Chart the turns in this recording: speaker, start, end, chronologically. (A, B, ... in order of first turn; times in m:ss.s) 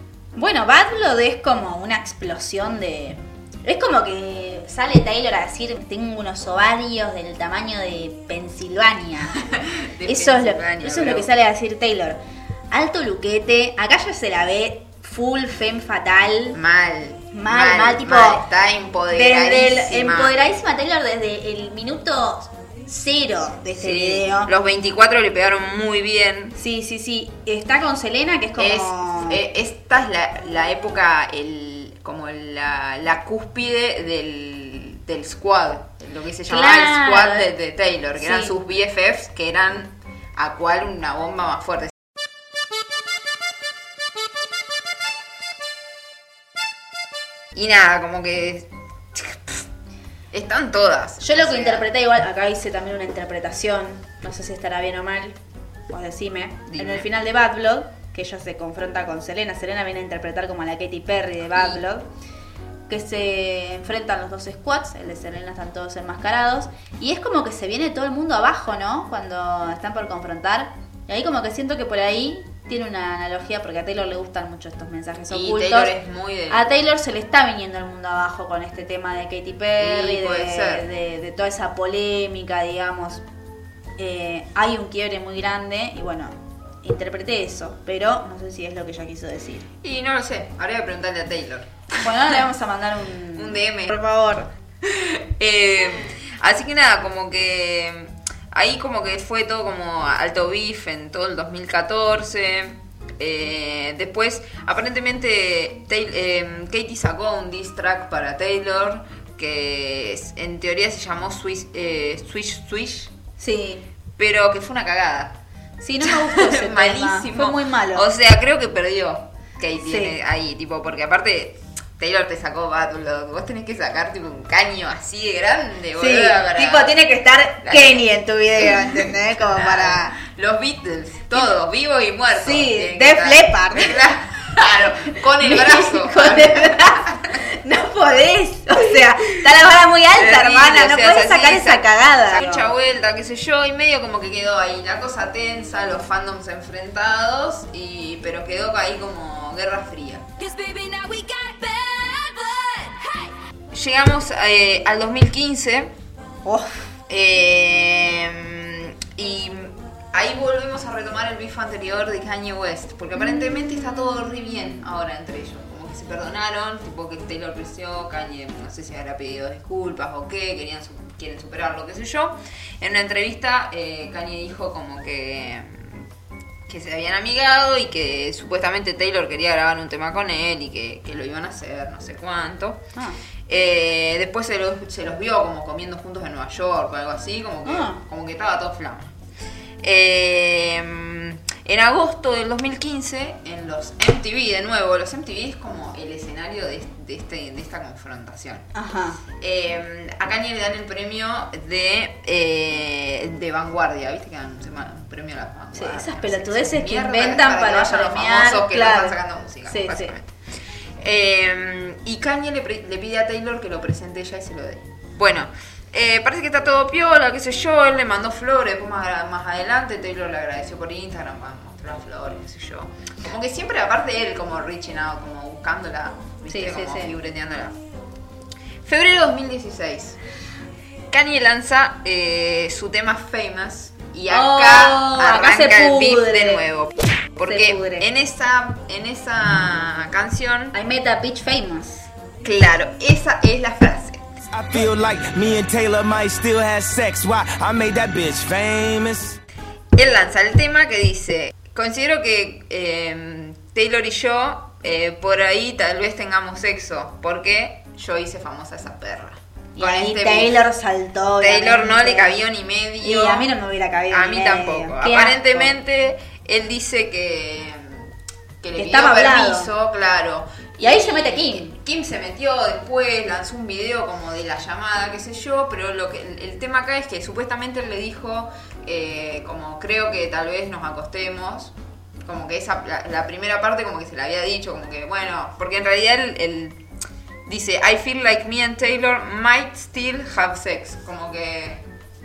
0:00.4-0:09.4 A
0:09.4-0:11.3 B
0:10.1-0:12.2 A
0:12.7-0:16.6 A
0:16.5-0:20.3 B
0:17.3-0:18.4 A
0:19.1-0:24.5 A
0:23.8-0:26.6 B
0:26.6-0:29.4 A
0:28.6-0:41.9 B
0:36.5-0:37.5 A
0:38.2-0:38.5 A
0:47.6-0:49.6 B
0:50.3-0:51.9 B
0:51.2-0:55.4 A
0:55.9-1:02.1 A
0:56.7-0:57.1 B
1:01.5-1:01.8 B
1:02.9-1:15.9 A
1:15.3-1:16.6 B
1:16.5-1:23.2 A
1:19.8-1:20.8 B
1:24.0-1:29.6 A
1:29.8-1:31.7 B
1:32.0-1:34.5 A
1:33.4-1:34.0 B
1:34.8-1:53.1 B
1:53.4-1:53.8 A
1:54.2-1:55.4 B
1:55.8-1:58.1 A
1:56.0-2:06.9 B
1:59.8-2:00.2 A
2:06.0-2:10.2 A
2:07.6-2:17.2 B
2:12.3-2:14.0 A
2:15.1-2:22.7 A
2:20.2-2:33.2 B
2:33.7-2:35.9 B
2:36.4-2:36.9 A
2:37.1-2:56.0 B
2:56.7-3:02.8 B
3:03.5-3:09.1 B
3:07.7-3:08.0 A
3:09.8-3:18.7 B
3:18.8-3:19.2 A
3:19.4-3:30.3 B
3:25.7-3:29.2 A
3:29.7-3:30.1 A
3:31.0-3:47.8 B
3:46.5-3:47.1 A
3:48.8-3:50.2 B
3:51.1-4:00.7 B
3:54.3-3:56.6 A
3:57.4-3:58.1 A
4:00.7-4:02.1 A
4:02.4-4:04.2 B
4:04.5-4:09.4 C
4:10.0-4:20.6 B
4:19.8-4:22.4 A
4:21.4-4:23.5 B
4:23.0-4:25.8 A
4:24.1-4:28.1 B
4:28.6-4:41.7 B
4:28.8-4:29.7 A
4:30.8-4:31.7 A
4:42.2-4:46.8 B
4:47.5-4:51.8 B